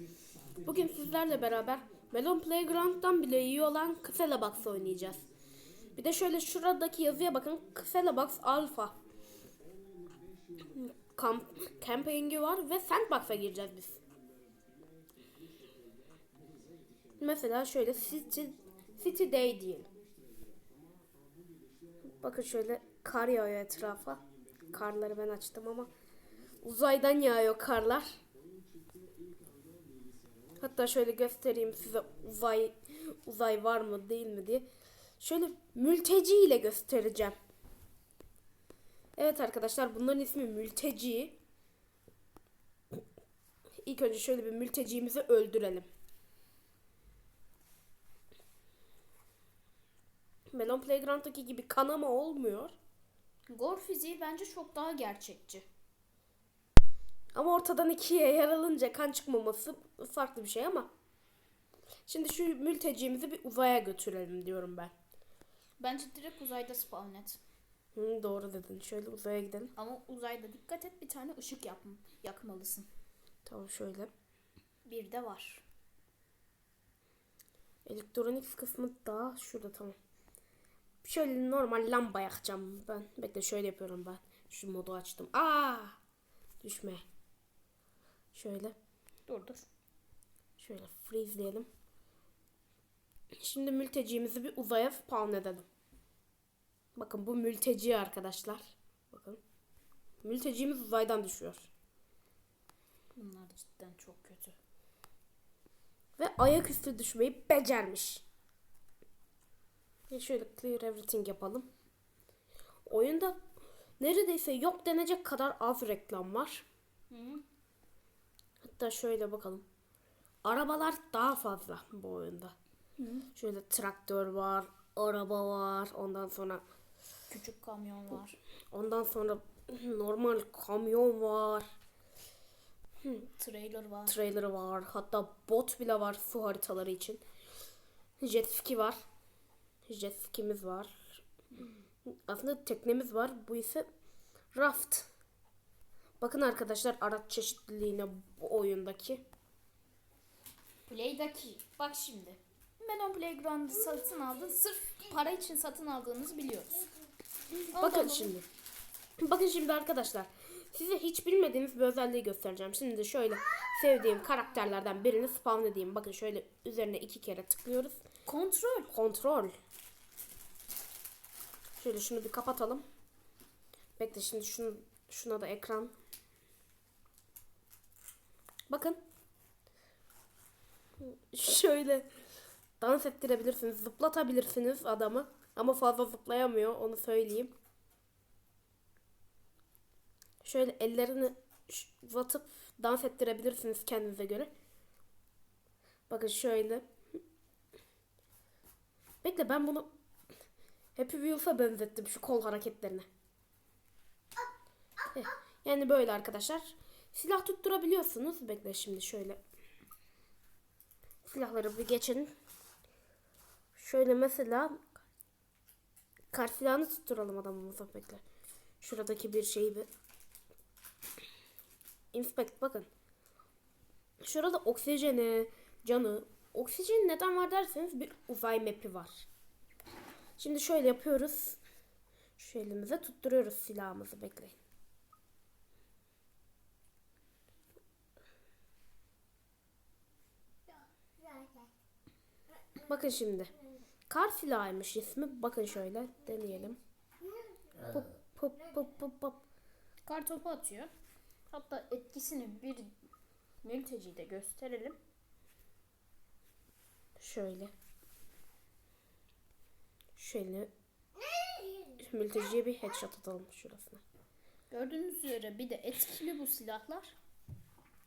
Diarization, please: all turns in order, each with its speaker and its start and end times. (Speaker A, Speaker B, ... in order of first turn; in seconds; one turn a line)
Speaker A: 0.6-5.2
Speaker A: 5.9-9.0
Speaker A: 10.7-14.0
Speaker A: 17.2-19.9
Speaker A: 22.2-25.9
Speaker A: 26.6-28.2
Speaker A: 30.6-34.7
Speaker A: 35.2-37.4
Speaker A: 39.1-41.4
Speaker A: 43.8-45.9
Speaker A: 50.5-52.7
Speaker B: 53.5-55.7
Speaker A: 57.3-60.9
Speaker A: 62.1-64.9
Speaker B: 65.8-67.4
Speaker A: 67.9-69.7
Speaker B: 69.8-72.9
Speaker A: 73.5-74.1
Speaker B: 74.8-75.6
Speaker A: 77.8-80.0
Speaker A: 81.0-86.0
Speaker A: 86.6-87.0
Speaker A: 88.3-88.7
Speaker B: 89.3-89.7
Speaker A: 90.6-91.7
Speaker A: 93.4-95.7
Speaker A: 97.0-99.4
Speaker A: 100.2-101.7
Speaker B: 103.1-104.6
Speaker A: 106.2-108.2
Speaker A: 110.1-111.7
Speaker A: 112.8-113.4
Speaker A: 114.0-116.6
Speaker B: 117.1-117.4
Speaker A: 118.6-119.6
Speaker A: 120.4-122.5
Speaker B: 123.0-123.3
Speaker A: 123.3-126.6
Speaker B: 127.3-128.4
Speaker A: 128.7-131.7
Speaker B: 133.4-134.1
Speaker A: 134.1-137.2
Speaker A: 138.2-139.0
Speaker A: 139.9-141.2
Speaker A: 142.1-143.8
Speaker A: 144.5-145.1
Speaker A: 146.2-149.2
Speaker B: 150.9-156.9
Speaker B: 157.7-158.3
Speaker A: 157.7-158.4
Speaker A: 159.2-168.0
Speaker B: 168.2-168.9
Speaker A: 168.9-169.5
Speaker A: 171.8-172.8
Speaker A: 174.0-175.9
Speaker A: 178.7-179.0
Speaker A: 181.0-182.1
Speaker A: 182.8-187.5
Speaker A: 190.4-194.5
Speaker A: 196.1-196.8
Speaker A: 199.2-199.9
Speaker A: 200.9-203.1
Speaker A: 205.1-209.4
Speaker A: 211.2-212.3
Speaker A: 213.7-214.8
Speaker A: 216.3-218.2
Speaker A: 218.8-219.9
Speaker A: 222.1-222.9
Speaker A: 224.2-229.3
Speaker A: 230.4-231.6
Speaker A: 232.4-234.5
Speaker A: 242.8-243.5
Speaker A: 244.1-246.8
Speaker A: 247.8-249.4
Speaker B: 250.0-250.9
Speaker B: 251.5-252.9
Speaker B: 253.6-255.0
Speaker A: 257.2-257.7
Speaker A: 260.1-260.7
Speaker A: 261.9-264.0
Speaker B: 264.7-267.1